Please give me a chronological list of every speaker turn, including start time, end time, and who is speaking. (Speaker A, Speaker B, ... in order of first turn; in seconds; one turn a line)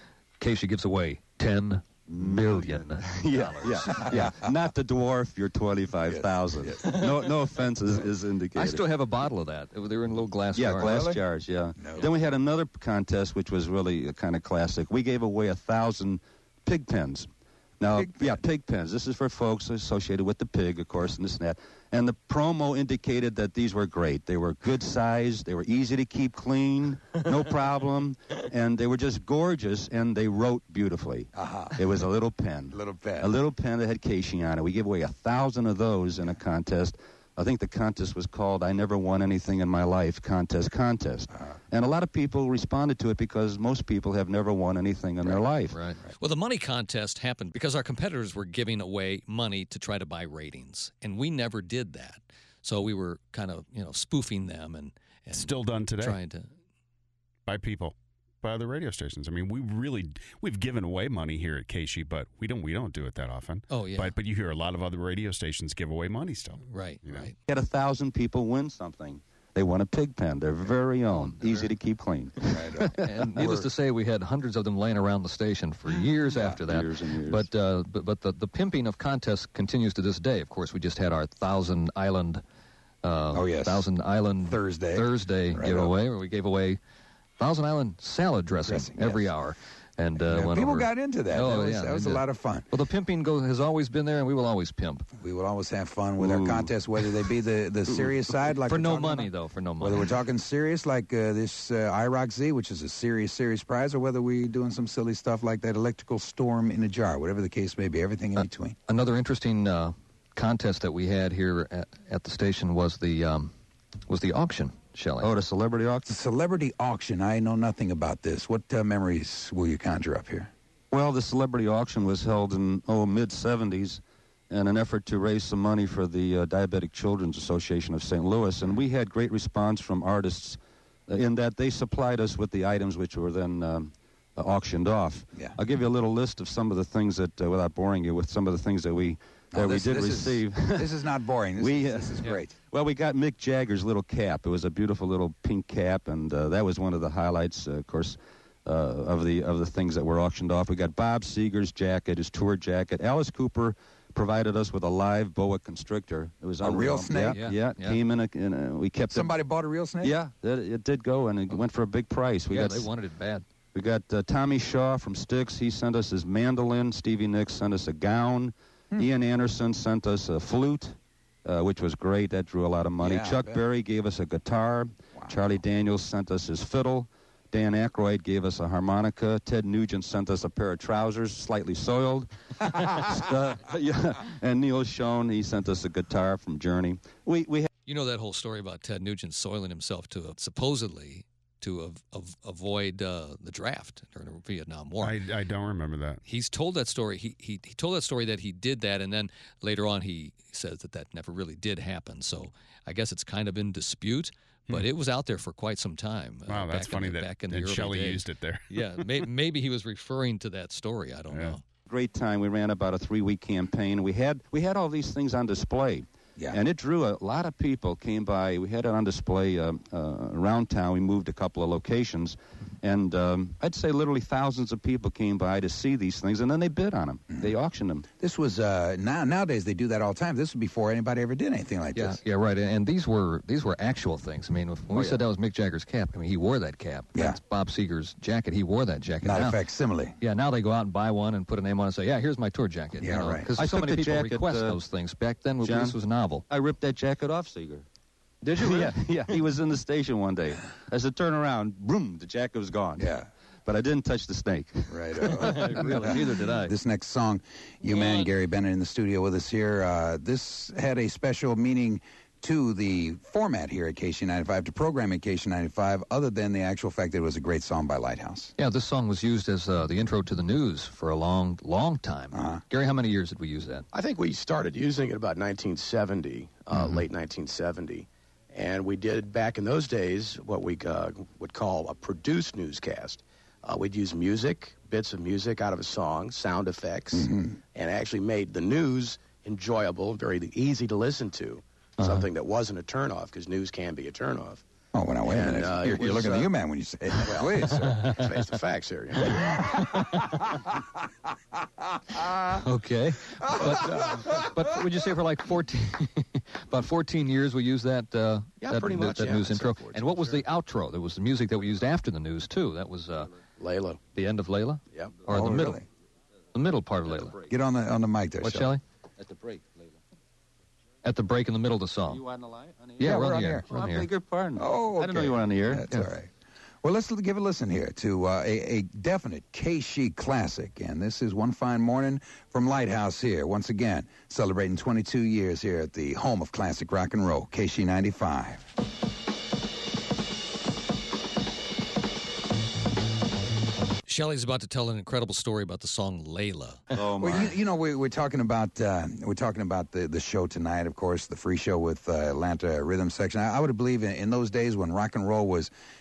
Speaker A: 0.4-4.3
Speaker B: 2.1-8.9
Speaker C: 3.9-4.5
Speaker C: 6.1-7.1
Speaker A: 8.6-11.2
Speaker B: 10.6-17.3
Speaker C: 10.8-11.2
Speaker C: 11.8-12.1
Speaker B: 17.8-45.8
Speaker C: 18.0-18.4
Speaker C: 31.4-31.8
Speaker C: 32.7-33.3
Speaker C: 41.3-41.6
Speaker A: 45.7-46.0
Speaker D: 46.2-56.5
Speaker E: 55.3-56.2
Speaker E: 57.5-67.3
Speaker D: 63.7-64.1
Speaker D: 66.7-67.4
Speaker B: 67.5-72.9
Speaker C: 72.5-73.7
Speaker A: 72.9-82.4
Speaker B: 76.5-77.5
Speaker A: 83.0-86.8
Speaker C: 83.3-83.9
Speaker C: 84.4-85.9
Speaker A: 87.4-95.1
Speaker C: 88.7-89.3
Speaker C: 90.2-92.7
Speaker C: 95.1-108.8
Speaker B: 96.2-96.7
Speaker A: 98.7-100.1
Speaker A: 108.9-113.5
Speaker A: 114.1-115.3
Speaker B: 115.2-116.1
Speaker C: 116.1-120.5
Speaker B: 120.9-141.0
Speaker C: 139.5-142.5
Speaker B: 141.6-159.3
Speaker C: 156.6-157.4
Speaker A: 157.3-158.0
Speaker C: 159.1-160.2
Speaker B: 160.0-162.9
Speaker A: 162.5-163.4
Speaker B: 163.7-187.7
Speaker C: 173.0-173.6
Speaker D: 187.9-195.2
Speaker E: 195.0-196.2
Speaker D: 196.2-211.6
Speaker E: 206.5-209.1
Speaker B: 211.9-228.1
Speaker C: 228.2-232.2
Speaker A: 231.9-239.6
Speaker C: 234.9-235.2
Speaker C: 239.2-240.2
Speaker A: 240.2-246.4
Speaker C: 243.0-243.5
Speaker B: 243.6-244.8
Speaker B: 245.6-246.0
Speaker B: 246.5-247.9
Speaker B: 248.5-253.1
Speaker C: 253.0-253.3
Speaker B: 253.7-256.4
Speaker C: 254.9-268.5
Speaker A: 255.4-256.7
Speaker A: 268.6-273.9
Speaker C: 272.3-272.6
Speaker F: 273.9-294.6
Speaker C: 276.8-277.0
Speaker C: 287.1-287.6
Speaker A: 292.0-292.3
Speaker C: 294.9-298.3
Speaker F: 295.2-296.5
Speaker F: 297.2-299.7
Speaker C: 299.4-300.2
Speaker C: 302.2-302.5
Speaker A: 302.6-313.3
Speaker C: 303.6-304.5
Speaker F: 308.6-310.4
Speaker F: 313.6-314.0
Speaker A: 314.1-315.8
Speaker F: 314.9-315.2
Speaker C: 315.3-315.9
Speaker A: 316.5-317.4
Speaker B: 317.1-317.4
Speaker C: 317.5-318.7
Speaker A: 318.4-318.8
Speaker B: 319.2-320.0
Speaker A: 321.0-322.2
Speaker B: 322.1-325.8
Speaker A: 323.0-324.1
Speaker C: 323.0-323.7
Speaker C: 324.6-326.3
Speaker C: 326.8-338.6
Speaker D: 344.1-346.8
Speaker B: 346.9-347.6
Speaker C: 347.2-355.7